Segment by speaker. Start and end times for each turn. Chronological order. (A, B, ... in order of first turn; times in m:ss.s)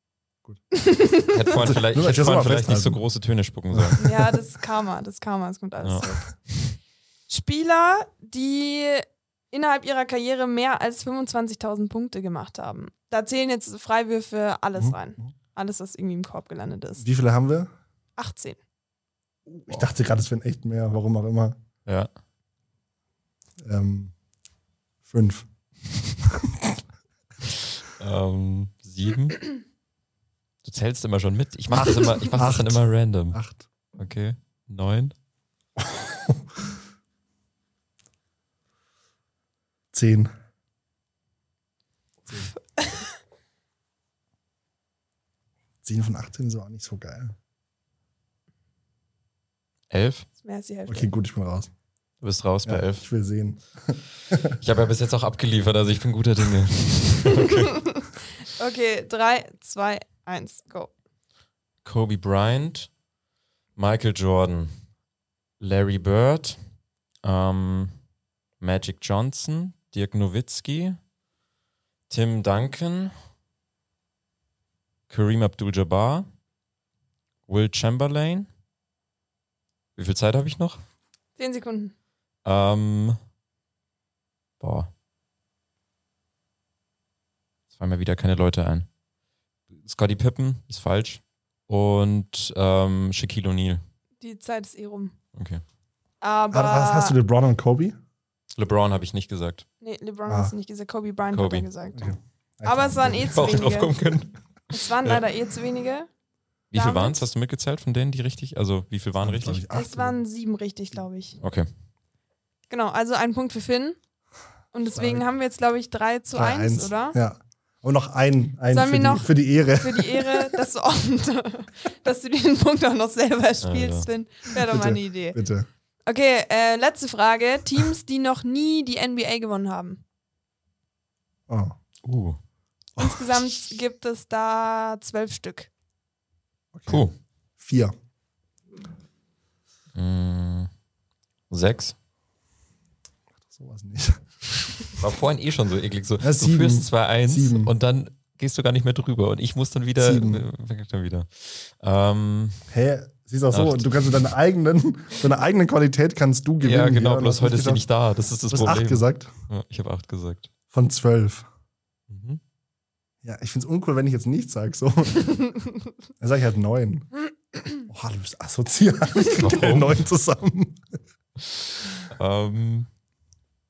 0:00.7-0:01.6 A
0:01.3-0:04.0 B
0:01.6-0:03.0 C
0:03.7-0:04.4 C
0:04.0-0:06.4 A
0:07.3-0:17.0 A
0:14.8-0:15.3 C
0:17.0-0:17.7 C
0:18.2-0:18.6 A
0:19.5-0:21.6 C
0:23.6-0:24.1 C
0:25.1-0:26.8 C
0:28.0-0:29.4 B
0:30.6-0:33.4 B
0:31.7-0:33.6 C
0:34.0-0:35.1 B
0:35.8-0:36.4 C
0:39.9-0:40.3 C
0:45.8-0:47.4 C
0:49.9-0:50.3 B
0:50.4-0:51.1 A
0:50.9-0:51.7 C
0:52.2-0:53.0 B
0:52.6-0:54.6 C
0:54.6-0:57.7 B
0:57.8-1:00.9 A
1:01.8-1:02.9 B
1:03.8-1:04.7 B
1:05.6-1:06.6 B
1:07.2-1:08.0 B
1:08.6-1:11.0 B
1:12.1-1:13.1 B
1:15.1-1:16.3 B
1:17.5-1:18.5 B
1:20.0-1:20.8 B
1:21.4-1:21.9 A
1:22.4-1:23.2 B
1:24.6-1:24.9 B
1:27.8-1:28.9 B
1:29.8-1:33.8 B
1:34.2-1:35.2 A
1:35.4-1:35.6 B
1:36.2-1:37.2 A
1:36.5-1:38.0 C
1:38.6-1:39.6 B
1:39.8-1:42.1 A
1:40.3-1:40.5 C
1:41.3-1:41.7 B
1:41.9-1:43.6 C
1:42.6-1:44.0 A
1:43.3-1:44.4 B
1:44.7-1:46.1 A
1:46.7-1:49.6 B
1:46.7-1:47.2 A
1:49.2-1:50.2 C
1:49.7-1:51.4 A
1:51.4-1:51.7 B
1:52.7-1:54.0 A
1:54.7-1:57.2 A
1:55.0-1:55.2 C
1:56.3-2:00.5 C
1:58.7-2:05.4 A
2:03.6-2:04.1 B
2:04.6-2:05.7 C
2:06.1-2:10.0 A
2:11.5-2:11.8 C
2:12.0-2:12.4 B
2:13.0-2:13.4 C
2:13.0-2:15.7 A
2:16.7-2:17.1 C
2:16.9-2:17.1 B
2:17.6-2:17.9 C
2:20.0-2:20.7 B
2:21.5-2:22.0 B
2:23.5-2:24.9 C
2:25.0-2:32.6 B
2:26.2-2:27.7 C
2:30.0-2:30.4 C
2:32.7-2:37.9 C
2:33.5-2:33.9 B
2:36.6-2:40.5 B
2:38.5-2:39.3 C
2:40.7-2:41.5 C
2:42.1-2:42.4 B
2:43.2-2:45.4 C
2:46.2-2:47.1 C
2:47.9-2:50.9 C
2:49.4-2:50.0 B
2:52.1-2:52.9 B